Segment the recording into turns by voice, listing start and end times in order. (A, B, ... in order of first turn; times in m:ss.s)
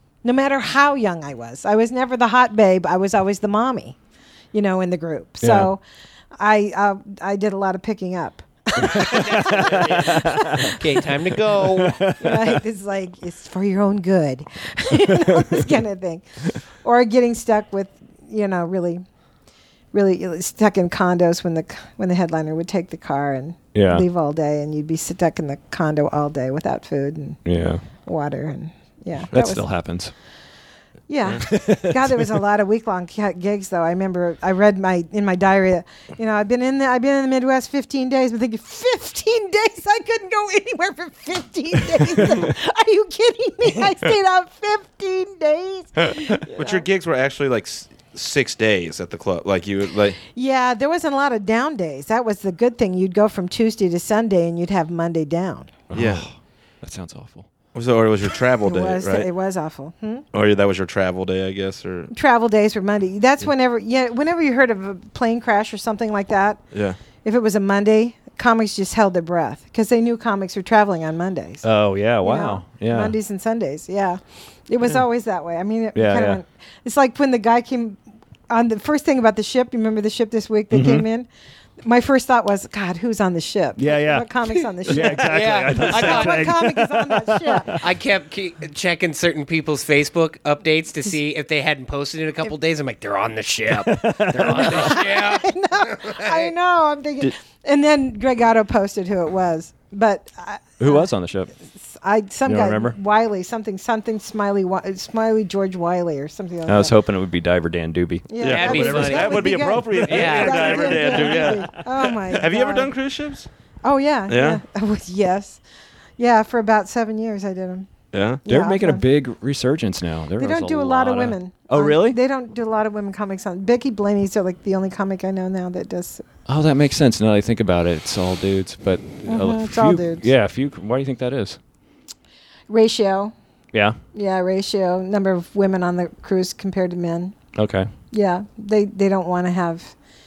0:00.2-0:04.0 A
0:04.5-0:05.8 A
0:05.4-0:05.7 B
0:06.4-0:11.0 A
0:08.8-0:10.7 B
0:08.9-0:12.0 C
0:11.5-0:12.6 B
0:12.1-0:16.2 A
0:15.0-0:15.7 B
0:16.8-0:19.0 A
0:19.9-0:27.4 A
0:23.7-0:24.0 B
0:27.4-0:27.8 B
0:28.0-0:29.6 A
0:29.3-0:30.1 B
0:31.1-0:46.8 A
0:31.4-0:32.3 B
0:46.1-0:50.2 D
0:50.3-0:55.7 A
0:55.9-0:57.5 B
0:55.9-0:56.2 D
0:57.7-0:59.3 D
0:58.6-1:00.2 A
1:00.3-1:02.1 D
1:02.1-1:06.6 A
1:06.7-1:07.0 D
1:07.2-1:11.6 A
1:11.6-1:13.1 B
1:12.2-1:21.3 A
1:15.9-1:16.4 B
1:20.7-1:21.0 B
1:21.8-1:27.8 A
1:23.8-1:27.8 B
1:25.0-1:26.6 C
1:27.8-1:36.5 C
1:33.7-1:35.0 B
1:34.4-1:41.1 A
1:40.8-1:41.5 B
1:41.7-1:46.9 A
1:42.4-1:43.0 B
1:46.6-1:49.5 B
1:48.3-1:52.9 A
1:48.4-1:49.5 C
1:48.4-1:53.5 D
1:50.0-1:51.2 C
1:50.1-1:52.2 B
1:53.8-1:55.6 A
1:54.3-1:54.6 D
1:56.2-1:57.9 A
1:58.1-1:58.4 D
1:58.4-1:59.0 A
1:58.4-2:02.2 B
2:00.4-2:06.2 A
2:06.5-2:11.6 B
2:09.2-2:10.3 A
2:12.7-2:13.3 A
2:14.1-2:17.4 A
2:17.6-2:17.9 B
2:18.1-2:19.9 A